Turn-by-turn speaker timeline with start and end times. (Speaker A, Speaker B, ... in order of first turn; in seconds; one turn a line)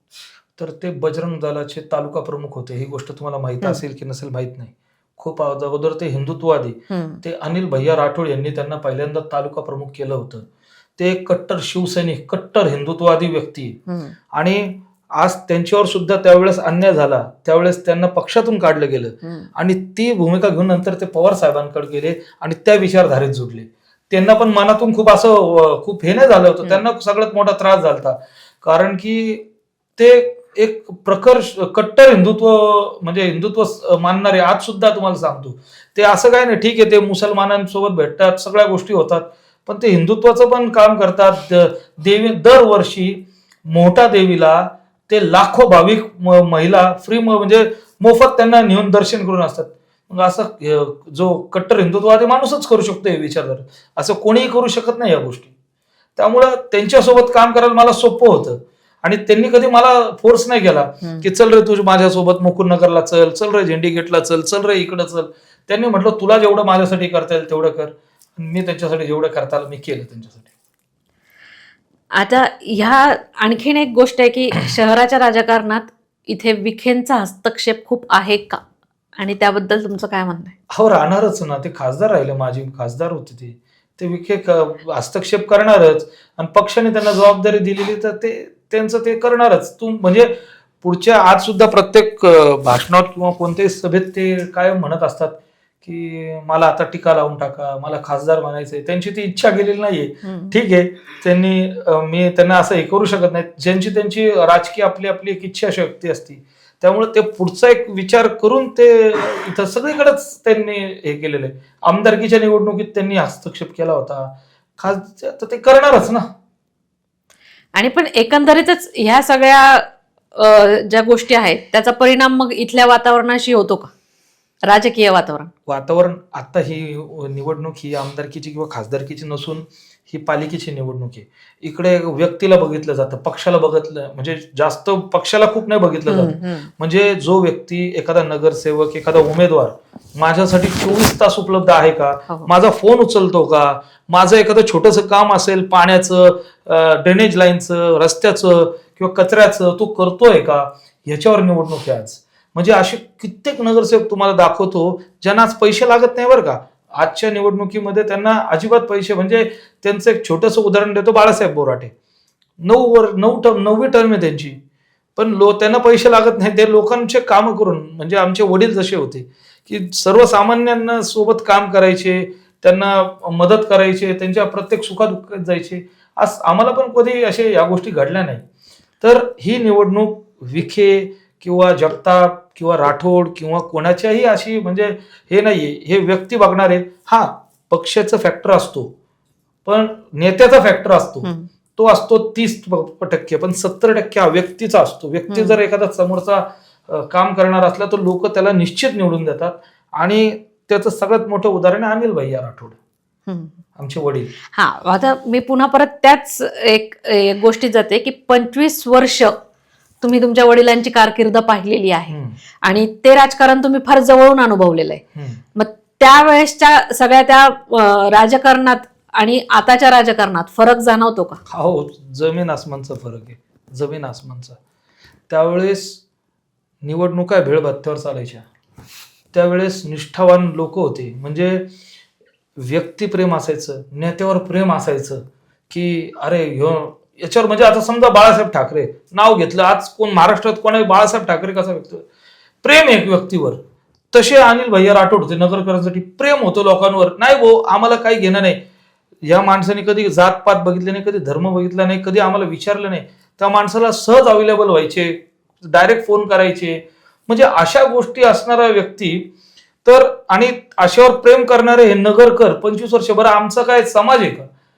Speaker A: 0.6-13.8
Speaker B: 6.9-7.2
Speaker B: 13.9-14.1
Speaker A: 14.3-29.4
Speaker B: 19.2-19.5
Speaker A: 30.0-55.5
Speaker A: 56.2-70.5
Speaker B: 72.1-78.6
Speaker B: 79.2-80.5
Speaker A: 80.7-116.3
Speaker B: 100.2-100.6
Speaker B: 117.7-123.9
Speaker B: 124.7-125.5
Speaker A: 125.7-161.9
Speaker B: 136.1-136.7
Speaker A: 162.6-164.6
Speaker A: 165.2-178.4
Speaker A: 179.0-188.9
Speaker A: 189.6-202.8
Speaker B: 191.2-191.5
Speaker B: 195.3-195.6
Speaker B: 203.3-203.5
Speaker A: 203.8-204.3
Speaker B: 204.5-209.3
Speaker B: 210.0-215.0
Speaker A: 212.1-212.4
Speaker A: 215.1-215.4
Speaker B: 215.5-221.4
Speaker A: 221.5-224.6
Speaker A: 225.3-226.0
Speaker A: 226.8-228.5
Speaker A: 229.3-231.7
Speaker A: 232.6-242.1
Speaker A: 242.6-243.6
Speaker A: 244.1-248.6
Speaker A: 249.2-259.3
Speaker A: 259.8-264.5